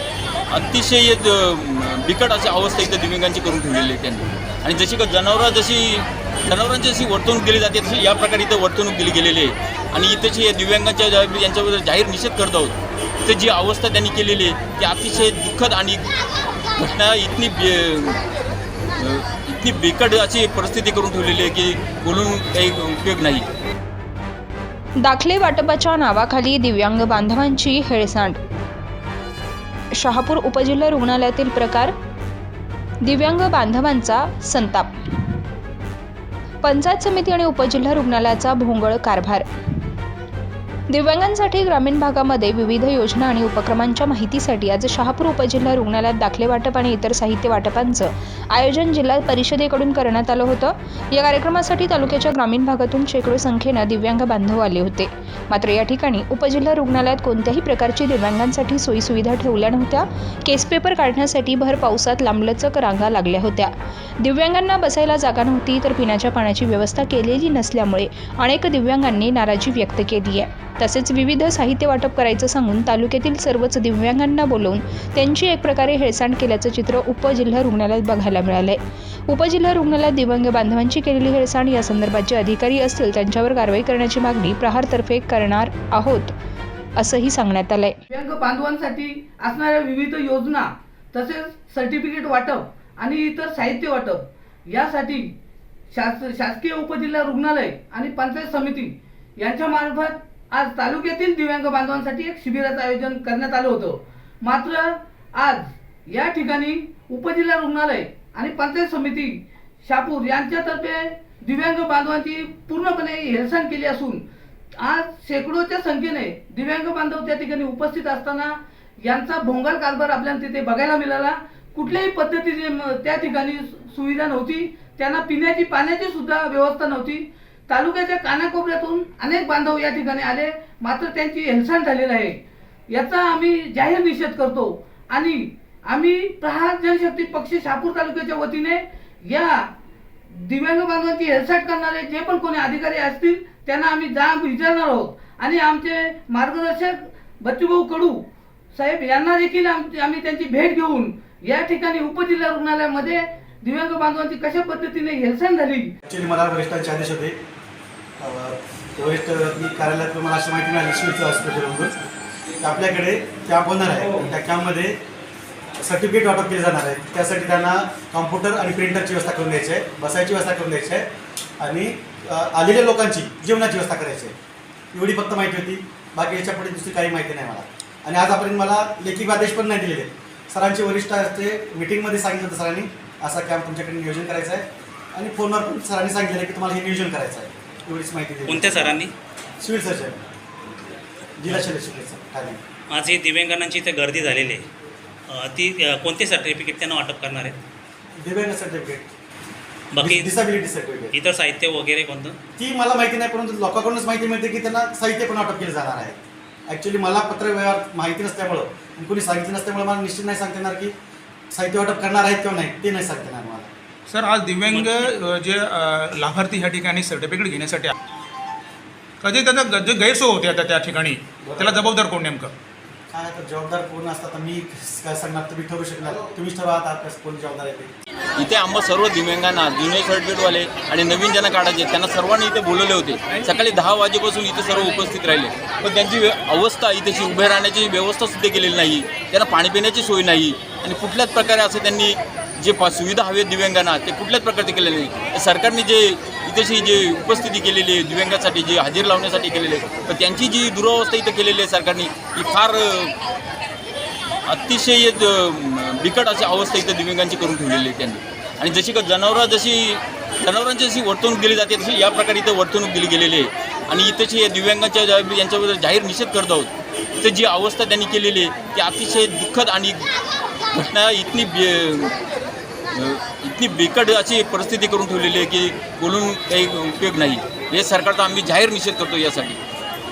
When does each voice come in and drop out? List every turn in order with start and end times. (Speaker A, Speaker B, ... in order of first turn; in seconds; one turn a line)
Speaker A: 0.5-16.0
Speaker A: 16.8-18.2
Speaker A: 19.0-23.4
Speaker B: 25.0-28.4
Speaker B: 29.9-31.9
Speaker B: 33.0-34.9
Speaker B: 36.6-39.5
Speaker B: 40.9-86.3
Speaker B: 87.0-88.0
Speaker C: 88.1-95.3
Speaker C: 95.9-114.2
Speaker C: 114.8-139.7
Speaker C: 140.3-155.9
Speaker D: 156.1-157.4
Speaker D: 158.2-162.0
Speaker D: 162.6-165.0
Speaker D: 165.8-171.1
Speaker D: 171.6-174.3
Speaker D: 174.9-189.0
Speaker E: 188.5-189.1
Speaker D: 189.6-190.2
Speaker D: 191.4-192.6
Speaker E: 192.9-194.6
Speaker E: 195.3-197.6
Speaker D: 198.2-199.1
Speaker E: 199.9-200.4
Speaker D: 200.0-201.1
Speaker E: 201.1-202.4
Speaker D: 202.6-210.9
Speaker D: 211.5-213.7
Speaker F: 214.1-217.9
Speaker F: 219.2-222.5
Speaker D: 221.4-221.9
Speaker D: 223.1-227.9
Speaker A: 228.4-253.2
Speaker A: 254.5-270.0
Speaker A: 270.7-272.1
Speaker A: 272.9-279.6